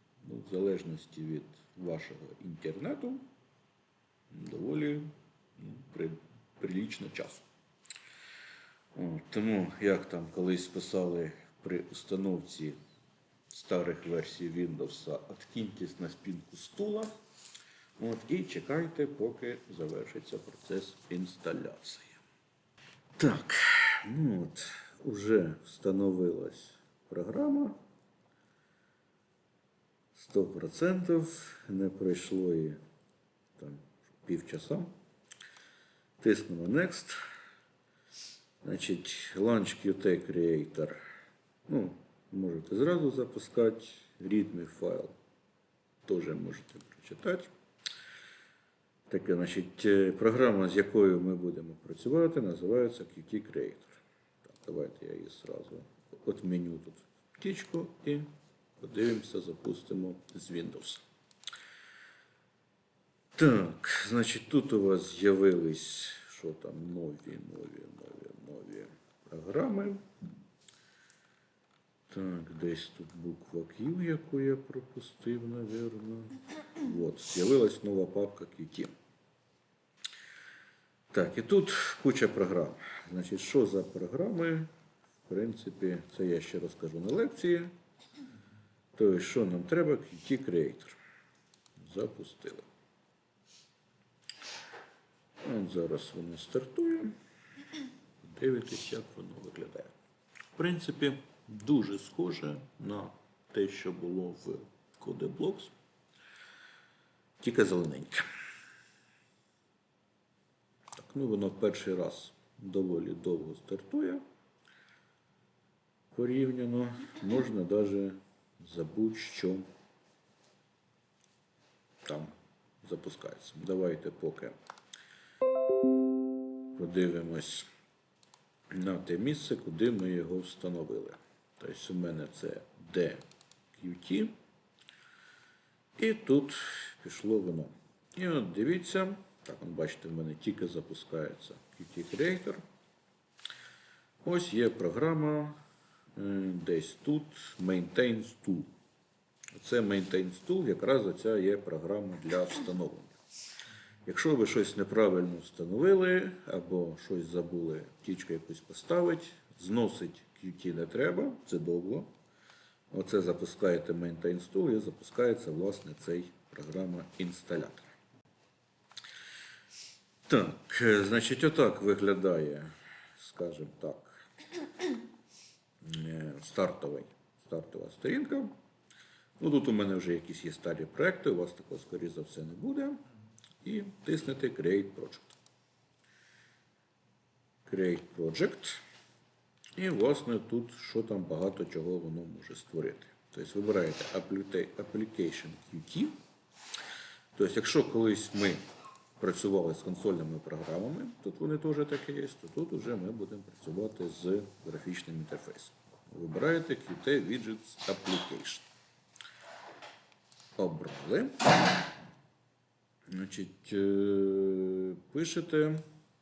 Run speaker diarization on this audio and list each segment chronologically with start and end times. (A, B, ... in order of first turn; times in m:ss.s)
0:00.2-0:03.2 A
0:04.3-0:07.5 A
0:09.0-0:12.8 A
0:13.5-0:17.1 A
0:18.0-0:22.2 A
0:23.2-0:27.8 A
0:30.2-0:32.8 A
0:33.6-0:34.9 A
0:36.2-0:37.2 A
0:38.6-0:41.0 A
0:41.7-0:45.2 A
0:46.0-0:47.5 A
0:49.1-0:58.3 A
0:58.8-1:01.0 A
1:03.4-1:10.0 A
1:12.1-1:18.9 A
1:21.1-1:24.7 A
1:25.3-1:27.7 A
1:29.0-1:31.0 A
1:31.8-1:32.7 A
1:35.4-1:37.2 A
1:38.2-1:40.0 A
1:40.6-1:45.7 A
1:47.4-1:48.2 A
1:51.0-1:54.2 A
1:56.1-1:59.7 A
2:02.0-2:04.6 A
2:06.8-2:07.7 A
2:08.7-2:13.2 A
2:13.8-2:14.4 A
2:16.0-2:22.6 A
2:24.2-2:25.6 A
2:26.2-2:28.7 A
2:29.5-2:33.2 A
2:34.0-2:42.1 A
2:42.9-2:48.0 A
2:50.3-2:54.3 A
2:55.8-2:58.5 A
2:59.4-3:03.0 A
3:03.6-3:05.4 A
3:07.7-3:08.8 A
3:09.8-3:16.2 A
3:17.4-3:18.6 A
3:19.2-3:28.7 A
3:30.6-3:31.5 A
3:33.1-3:35.8 A